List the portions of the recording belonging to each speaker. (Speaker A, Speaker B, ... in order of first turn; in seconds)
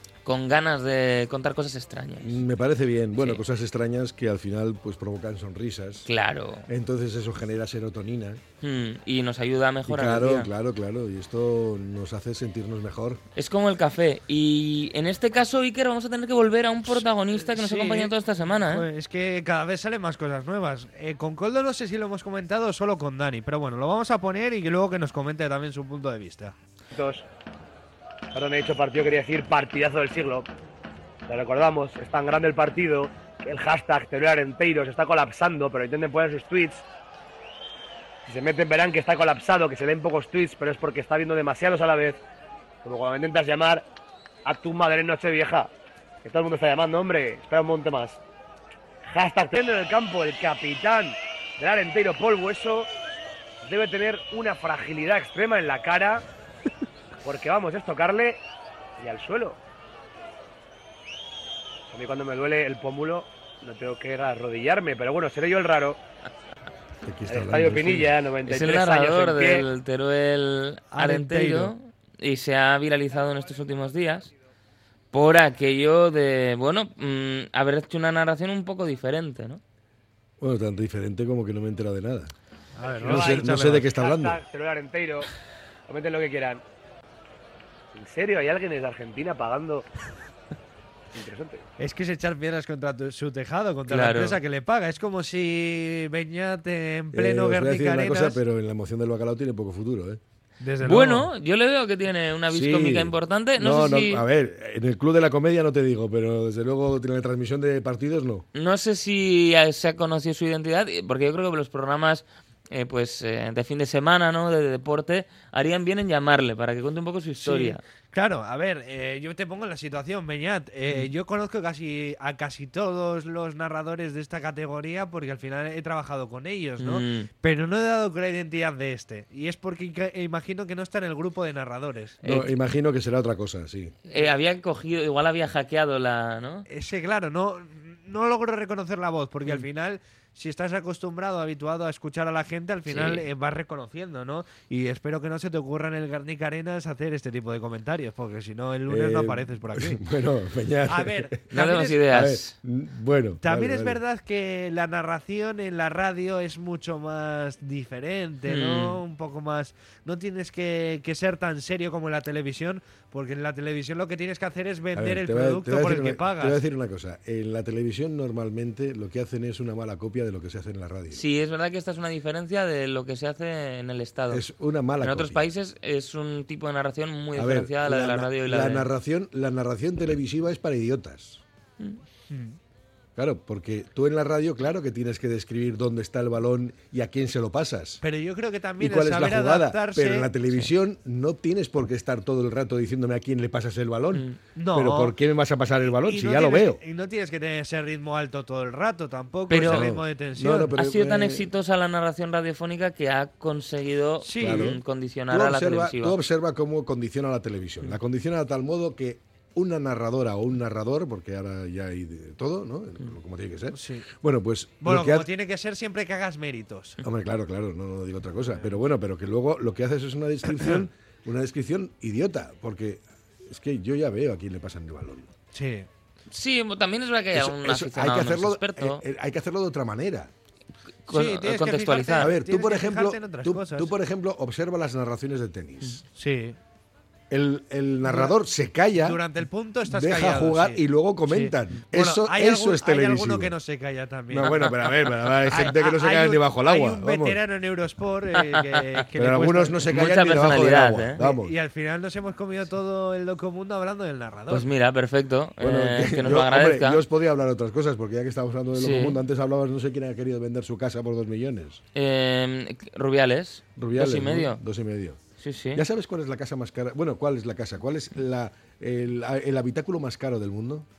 Speaker A: 0.2-2.4, 3.2-3.4, 6.0-6.7, 8.6-10.5, 13.3-18.9, 68.5-74.3, 75.1-79.6, 93.9-94.4, 100.8-104.2, 108.5-117.8, 126.8-127.3, 132.2-132.6, 134.1-136.7, 142.9-143.2, 151.5-152.6, 158.4-159.0, 171.1-174.4, 175.0-178.9, 194.1-194.4, 199.5-199.9, 200.6-206.2, 226.3-229.0, 231.1-232.3, 248.6-249.0, 249.9-251.2, 254.5-257.0, 258.7-259.2, 261.9-264.6, 265.4-265.9
Speaker B: 2.2-6.1, 6.7-8.4, 9.9-13.2, 67.0-68.2, 80.4-82.3, 83.0-84.4, 97.1-100.2, 102.5-108.5, 132.2-133.9, 148.9-151.4, 152.1-154.0, 164.9-171.2, 174.3-175.4, 177.3-181.4, 183.2-188.0, 188.8-196.8, 199.6-201.5, 204.4-215.3, 217.0-225.3, 227.3-230.3, 232.2-236.0, 237.3-239.2, 239.9-243.6, 244.3-247.4, 249.2-251.5, 255.6-261.8, 263.8-265.2, 265.8-270.9
Speaker C: 16.9-26.6, 70.9-71.7, 82.7-83.9, 91.8-98.4, 100.6-101.3, 117.4-132.2, 136.7-150.0, 150.9-152.0, 153.4-166.6, 182.3-182.6, 188.0-190.3, 194.6-195.1, 195.9-200.8, 204.2-204.8, 213.7-214.1, 214.8-217.0, 225.5-225.9, 231.1-233.9, 236.1-236.6, 238.0-238.4, 239.0-244.6, 245.5-249.9, 251.2-254.7
Speaker D: 26.9-27.2, 28.3-30.5, 31.3-36.8, 38.2-42.2, 42.8-43.9, 44.4-45.7, 46.2-48.2, 49.1-52.9, 53.6-56.2, 57.2-58.4, 59.0-59.6, 61.9-66.0, 67.3-69.7, 82.8-85.3, 85.9-86.6, 87.9-89.9, 91.1-91.6